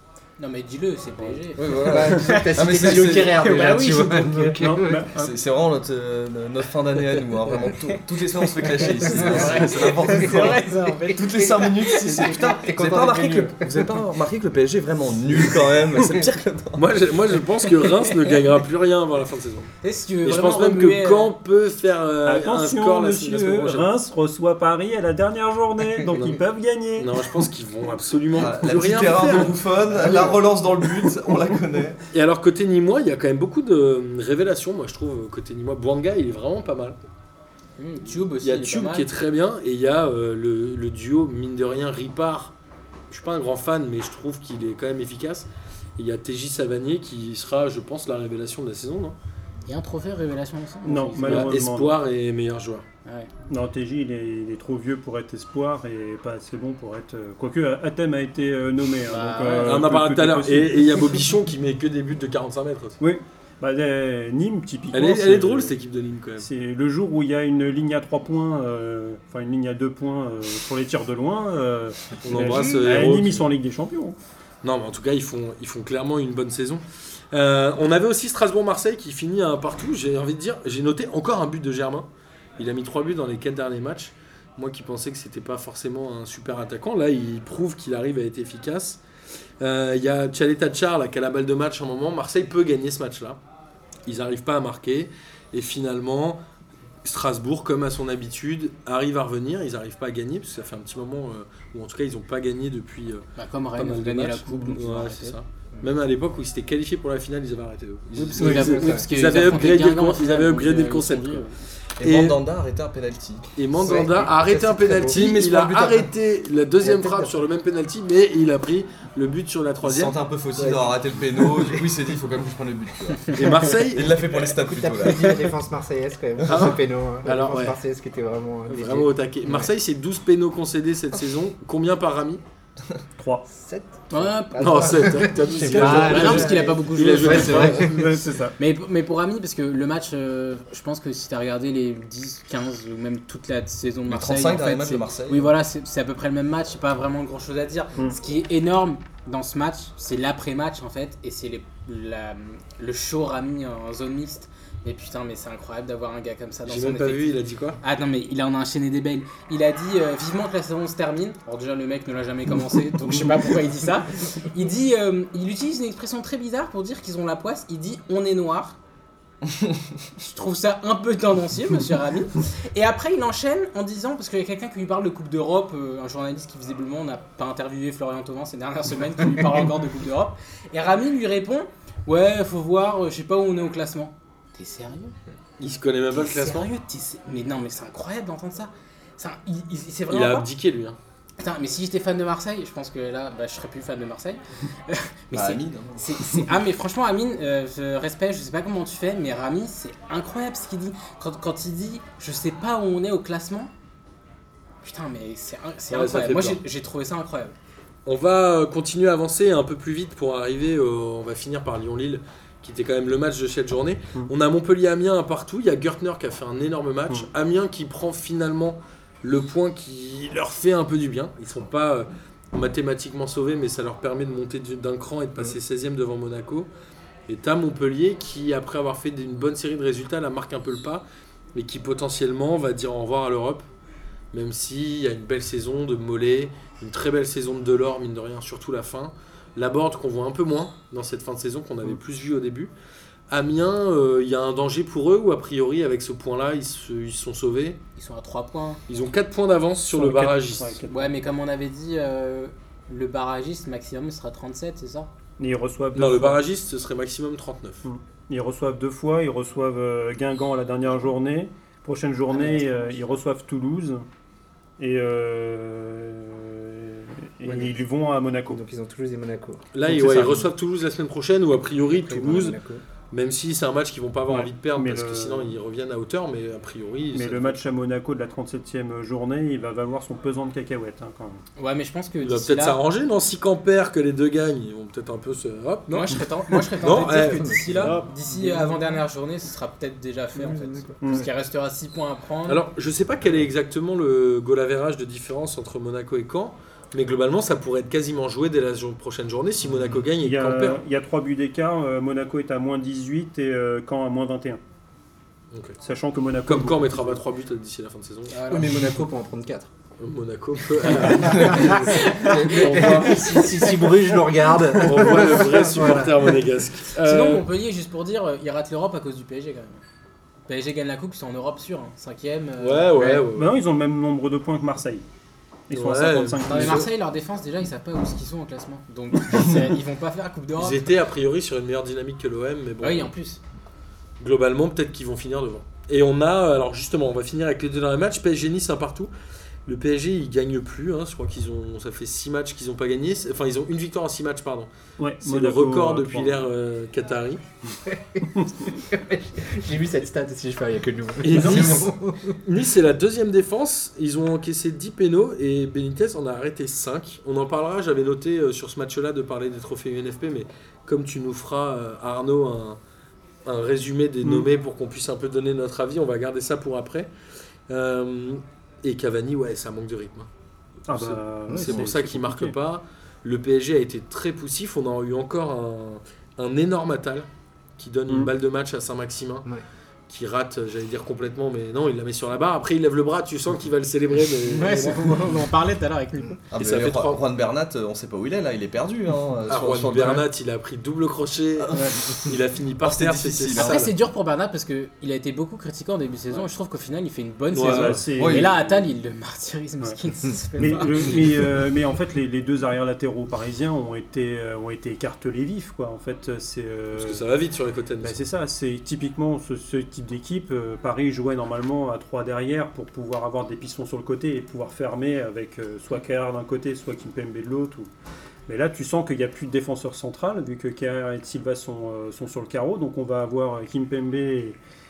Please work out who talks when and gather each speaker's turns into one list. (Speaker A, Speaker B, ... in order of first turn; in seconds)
Speaker A: 0.4-4.5, 8.4-12.6, 19.8-21.3, 37.8-39.1, 49.7-51.5, 53.0-53.3, 59.1-59.8, 103.4-105.4, 108.3-111.5, 134.1-138.0, 138.6-168.8, 170.2-185.2, 186.1-190.5, 191.4-203.7, 204.8-207.5, 248.0-248.8, 250.9-255.1, 262.3-263.1, 281.6-282.8, 285.9-292.6, 308.3-308.9, 311.2-313.8, 317.0-319.8, 320.5-323.3, 326.5-330.9, 332.8-333.4, 384.5-386.4, 393.5-401.4
Speaker B: 1.6-3.7, 5.1-16.8, 28.3-32.0, 112.0-114.1, 115.0-116.1, 119.8-125.4, 137.2-137.7, 144.1-145.5, 195.3-196.2, 386.5-390.3, 391.6-393.9, 398.2-398.5
Speaker C: 1.7-5.1, 9.0-13.9, 30.0-30.3, 108.4-109.1, 113.8-115.3, 116.8-117.4, 124.5-129.7, 133.5-138.1, 267.4-267.8, 268.5-270.4, 271.9-272.8, 287.0-289.0, 290.4-291.3, 308.5-309.7, 311.0-316.4, 347.9-352.4, 384.5-385.5
Speaker D: 4.3-5.3, 22.2-27.3, 50.8-52.0, 53.5-61.2, 63.0-65.7, 66.4-74.2, 133.2-133.4, 137.8-138.6, 249.9-251.2, 255.4-256.4, 257.8-264.1, 264.8-268.6, 270.0-270.4, 274.3-275.5, 277.1-281.4, 291.0-291.3, 300.1-304.6, 305.8-307.2, 323.3-325.1, 325.7-326.9, 345.0-346.4, 370.9-372.6, 397.6-398.8, 400.6-407.2, 408.0-417.9, 418.5-424.6
Speaker E: 16.8-19.7, 20.2-23.9, 27.0-29.6, 32.1-37.0, 38.4-42.5, 43.1-49.2, 51.2-52.9, 59.6-63.0, 64.9-66.5, 72.2-73.5, 74.6-82.1, 82.6-89.0, 89.6-93.4, 94.1-96.4, 97.0-112.4, 113.6-120.8, 123.3-124.2, 126.4-127.8, 128.7-132.4, 134.6-137.9, 156.7-157.8, 185.6-186.7, 190.1-191.0, 205.9-206.6, 208.1-226.7, 227.3-233.7, 234.3-242.7, 243.3-247.8, 248.9-250.8, 255.9-257.9, 269.7-272.6, 273.1-277.6, 282.2-286.2, 286.8-288.1, 292.5-300.8, 305.5-305.8, 306.5-308.4, 310.0-313.6, 314.8-317.5, 322.6-323.6, 325.7-326.9, 330.6-333.1, 334.2-339.1, 339.7-347.4, 351.2-362.8, 363.4-367.1, 367.7-370.3, 370.9-379.5, 380.1-385.2, 386.6-387.2, 389.5-393.9, 397.5-398.1, 406.9-408.2